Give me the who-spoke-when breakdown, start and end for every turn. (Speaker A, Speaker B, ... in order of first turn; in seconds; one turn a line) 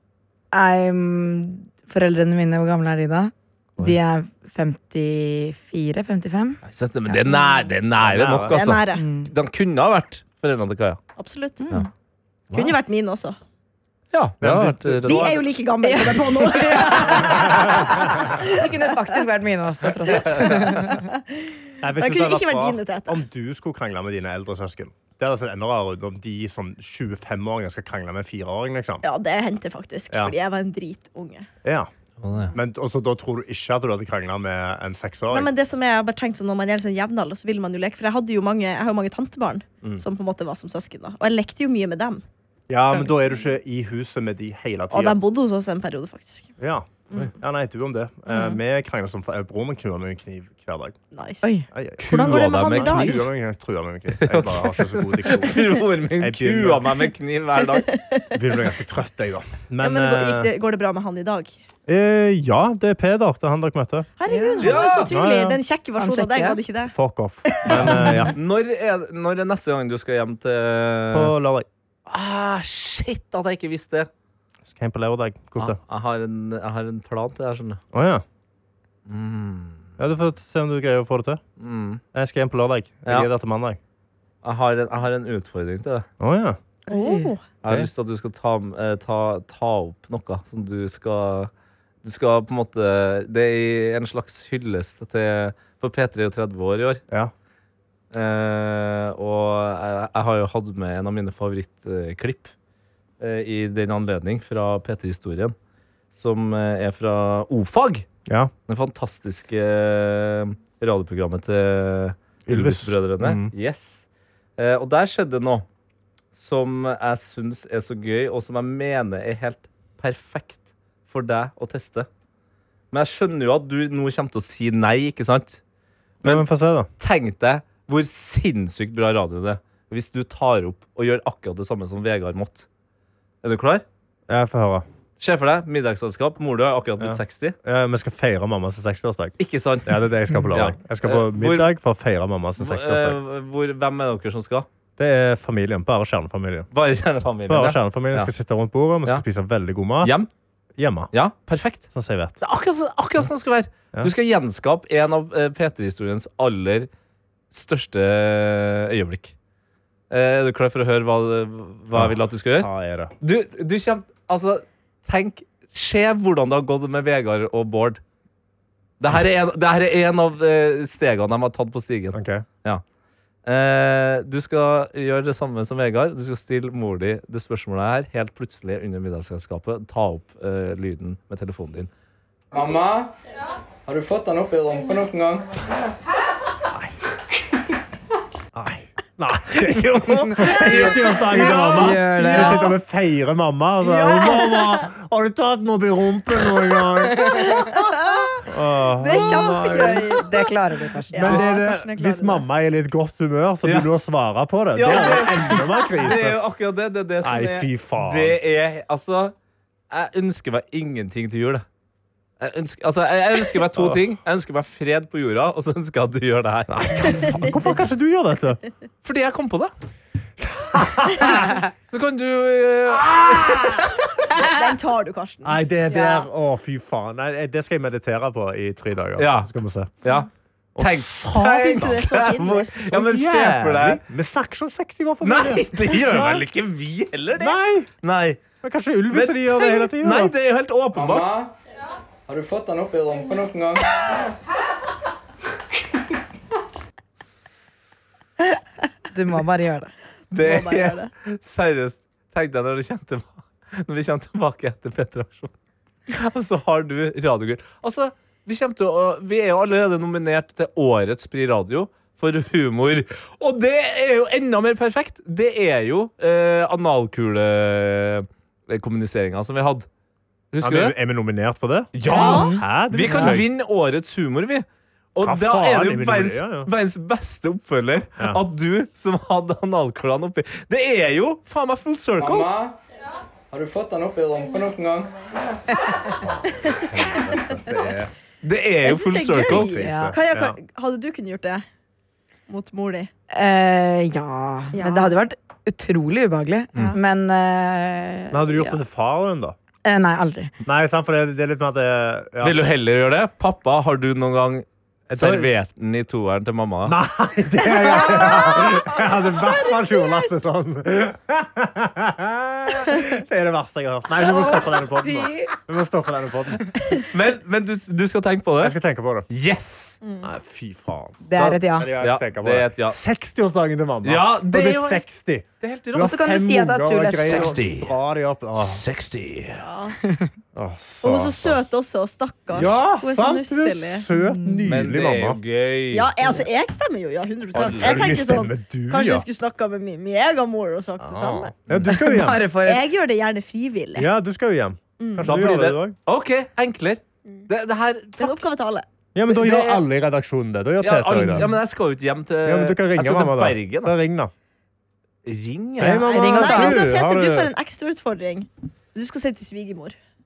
Speaker A: 0.5-7.6
Speaker B: 6.7-11.0
Speaker C: 8.0-8.5
Speaker D: 8.5-9.1
Speaker A: 8.9-9.3
Speaker D: 11.2-11.6
Speaker A: 11.6-11.9
Speaker D: 12.5-13.4
Speaker B: 14.1-15.4
Speaker C: 14.4-15.3
Speaker D: 15.1-17.8
Speaker A: 15.8-21.0
Speaker C: 17.9-18.2
Speaker D: 18.4-19.2
Speaker B: 20.2-20.8
Speaker D: 20.9-21.2
Speaker C: 21.8-29.0
Speaker D: 22.0-23.2
Speaker D: 29.0-31.5
Speaker C: 31.6-31.9
Speaker B: 32.2-32.5
Speaker C: 32.5-35.5
Speaker D: 35.3-42.2
Speaker C: 42.7-45.2
Speaker D: 44.9-46.5
Speaker C: 46.6-51.0
Speaker D: 48.3-48.6
Speaker D: 51.1-53.3
Speaker C: 51.7-56.9
Speaker B: 52.0-53.2
Speaker B: 54.2-57.9
Speaker D: 57.8-58.4
Speaker C: 58.3-60.5
Speaker D: 59.8-61.6
Speaker C: 61.9-64.1
Speaker D: 64.2-66.9
Speaker A: 64.3-65.1
Speaker B: 64.6-65.1
Speaker C: 65.1-65.6
Speaker A: 66.0-66.6
Speaker C: 66.9-68.3
Speaker D: 67.5-68.2
Speaker B: 67.7-71.3
Speaker C: 71.1-71.7
Speaker B: 72.1-74.1
Speaker C: 74.7-75.8
Speaker B: 75.6-77.8
Speaker C: 77.9-78.2
Speaker B: 79.1-79.9
Speaker C: 80.0-81.4
Speaker B: 81.6-82.0
Speaker C: 82.1-83.8
Speaker B: 84.4-86.1
Speaker C: 86.2-86.6
Speaker D: 86.9-87.4
Speaker A: 86.9-87.3
Speaker B: 87.6-91.5
Speaker B: 92.0-97.0
Speaker B: 98.1-102.5
Speaker B: 103.2-105.5
Speaker B: 106.1-108.1
Speaker C: 108.3-108.5
Speaker B: 108.7-115.7
Speaker C: 112.5-113.5
Speaker B: 116.3-122.1
Speaker B: 122.9-125.6
Speaker C: 126.2-126.9
Speaker B: 127.0-132.7
Speaker B: 133.4-133.8
Speaker C: 134.3-134.9
Speaker B: 135.2-137.6
Speaker C: 137.0-143.2
Speaker B: 139.4-141.7
Speaker B: 142.6-144.7
Speaker C: 145.0-146.7
Speaker B: 146.7-148.3
Speaker C: 147.5-150.2
Speaker B: 150.0-150.3
Speaker C: 150.8-151.1
Speaker B: 151.1-151.9
Speaker C: 151.9-152.4
Speaker B: 152.4-156.9
Speaker B: 157.5-159.3
Speaker B: 160.1-162.7
Speaker C: 161.9-163.1
Speaker B: 163.2-168.0
Speaker B: 169.0-172.8
Speaker C: 172.1-172.4
Speaker B: 173.5-181.9
Speaker E: 182.5-183.1
Speaker E: 183.9-185.5
Speaker C: 188.5-197.6
Speaker D: 190.6-192.7
Speaker B: 190.6-191.0
Speaker A: 191.6-192.7
Speaker D: 193.8-194.8
Speaker D: 197.2-198.5
Speaker A: 197.2-197.8
Speaker C: 198.5-200.2
Speaker D: 199.0-200.5
Speaker A: 200.1-201.4
Speaker D: 201.1-202.5
Speaker C: 201.2-206.4
Speaker B: 203.6-203.9
Speaker B: 204.8-209.3
Speaker C: 207.2-208.4
Speaker B: 209.9-211.7
Speaker B: 212.4-217.5
Speaker C: 213.7-214.0
Speaker C: 216.7-218.6
Speaker B: 219.0-219.7
Speaker C: 220.4-221.6
Speaker B: 221.9-224.0
Speaker C: 223.2-223.9
Speaker D: 224.3-225.6
Speaker C: 225.4-230.0
Speaker A: 225.9-226.2
Speaker B: 229.2-229.5
Speaker B: 230.0-234.0
Speaker C: 230.8-236.4
Speaker D: 231.4-232.7
Speaker B: 235.2-238.4
Speaker C: 237.4-237.9
Speaker C: 238.6-240.3
Speaker B: 239.1-241.3
Speaker E: 240.9-241.5
Speaker E: 242.3-244.3
Speaker A: 249.1-249.9
Speaker B: 250.3-255.5
Speaker D: 250.4-251.1
Speaker B: 256.1-269.9
Speaker B: 270.5-270.9
Speaker C: 270.6-273.5
Speaker B: 271.9-282.5
Speaker A: 272.1-273.4
Speaker D: 272.1-272.5
Speaker C: 275.2-276.7
Speaker E: 282.2-282.8
Speaker E: 283.5-285.1
Speaker C: 286.2-288.1
Speaker D: 286.6-286.9
Speaker B: 288.4-289.9
Speaker D: 288.8-291.6
Speaker C: 289.5-290.6
Speaker A: 289.9-290.2
Speaker D: 292.5-293.1
Speaker A: 293.3-298.8
Speaker D: 294.7-295.1
Speaker C: 298.3-299.6
Speaker A: 299.9-300.5
Speaker C: 300.6-302.6
Speaker B: 302.4-307.0
Speaker C: 305.1-305.5
Speaker C: 306.9-316.8
Speaker A: 314.2-315.5
Speaker B: 317.1-318.8
Speaker C: 318.6-319.3
Speaker B: 319.3-320.0
Speaker D: 320.0-320.3
Speaker C: 320.2-328.8
Speaker A: 321.3-321.9
Speaker B: 321.4-323.0
Speaker B: 324.0-325.0
Speaker B: 325.6-326.1
Speaker A: 325.9-327.6
Speaker B: 327.2-328.0
Speaker B: 328.6-329.6
Speaker D: 329.6-330.0
Speaker C: 330.6-331.6
Speaker D: 331.0-334.1
Speaker C: 332.5-335.4
Speaker A: 334.2-334.7
Speaker B: 334.7-336.1
Speaker D: 335.9-341.5
Speaker B: 337.6-338.1
Speaker C: 337.6-339.3
Speaker C: 341.0-342.4
Speaker A: 341.9-342.8
Speaker D: 342.6-344.1
Speaker C: 344.0-346.0
Speaker D: 345.0-345.3
Speaker B: 345.2-348.4
Speaker D: 348.2-348.9
Speaker C: 349.1-351.5
Speaker B: 349.3-349.8
Speaker B: 350.8-354.0
Speaker C: 352.4-354.3
Speaker B: 355.2-356.1
Speaker C: 355.8-357.5
Speaker A: 356.0-356.9
Speaker D: 356.1-360.0